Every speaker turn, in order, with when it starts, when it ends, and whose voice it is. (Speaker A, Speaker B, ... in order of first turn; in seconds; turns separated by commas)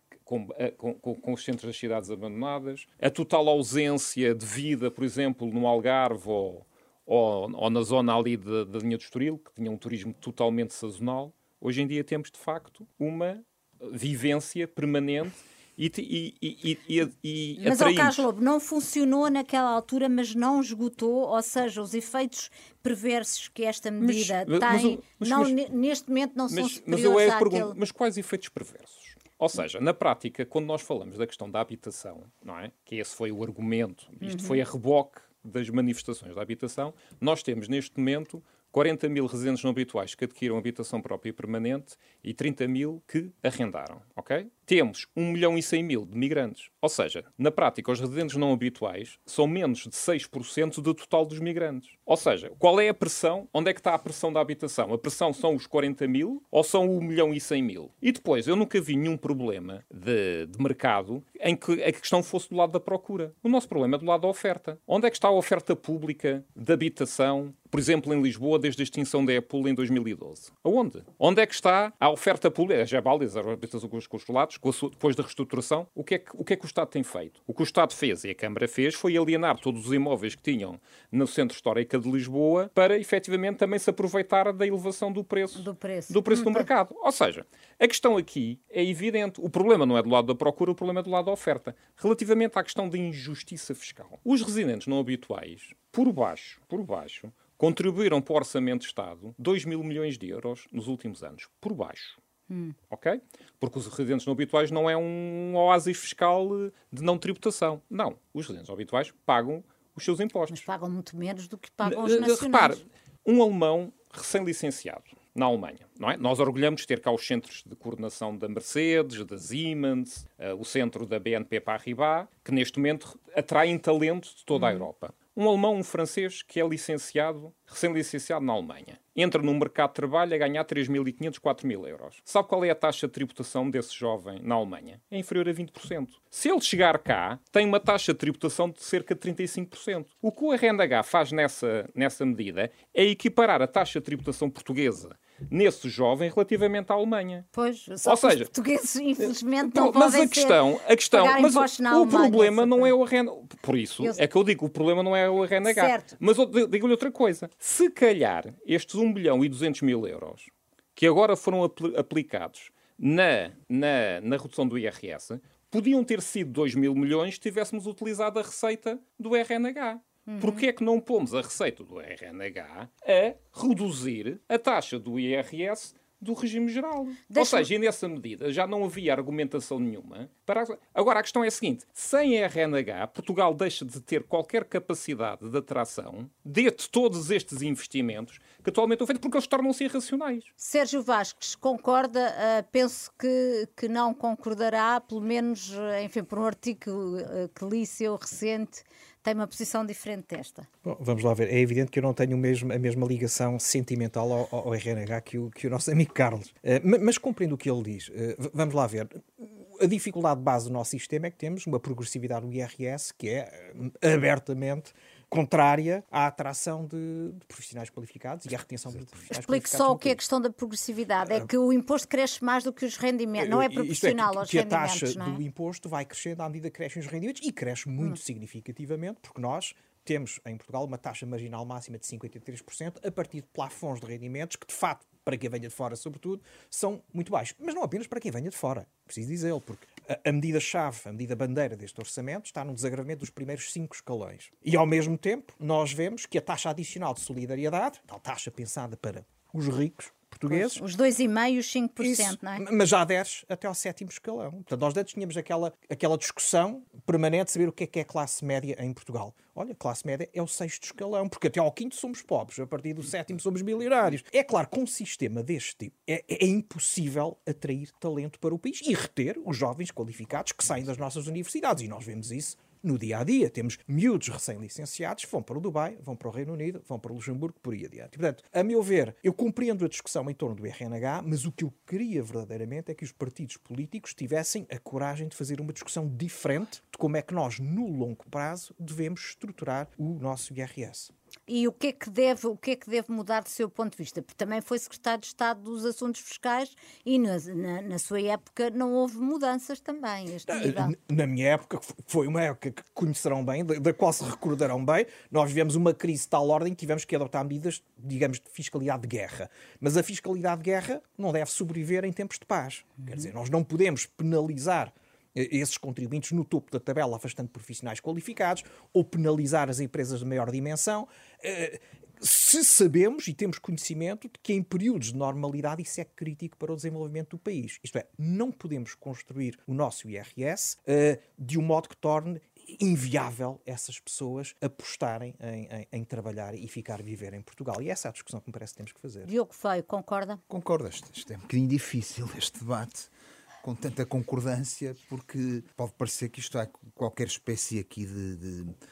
Speaker A: 0.2-18.2, Speaker B: 17.6-27.7, Speaker A: 24.0-25.5, Speaker A: 26.5-102.2, Speaker B: 34.2-34.6, Speaker B: 85.5-86.7, Speaker B: 102.5-102.7, Speaker A: 102.9-110.7, Speaker B: 110.5-112.8, Speaker A: 111.8-147.5, Speaker B: 124.5-124.9, Speaker B: 147.5-150.6, Speaker A: 148.0-148.5, Speaker A: 149.2-190.5, Speaker B: 151.1-152.9, Speaker B: 155.6-156.1, Speaker B: 170.3-170.6, Speaker B: 177.3-177.7, Speaker B: 190.6-200.7, Speaker C: 200.8-220.2, Speaker B: 219.3-225.4, Speaker C: 223.4-250.8, Speaker B: 250.5-252.6, Speaker C: 252.0-291.1, Speaker B: 291.5-300.9, Speaker C: 300.5-339.3, Speaker B: 339.2-340.4, Speaker D: 340.5-343.1, Speaker D: 343.6-348.7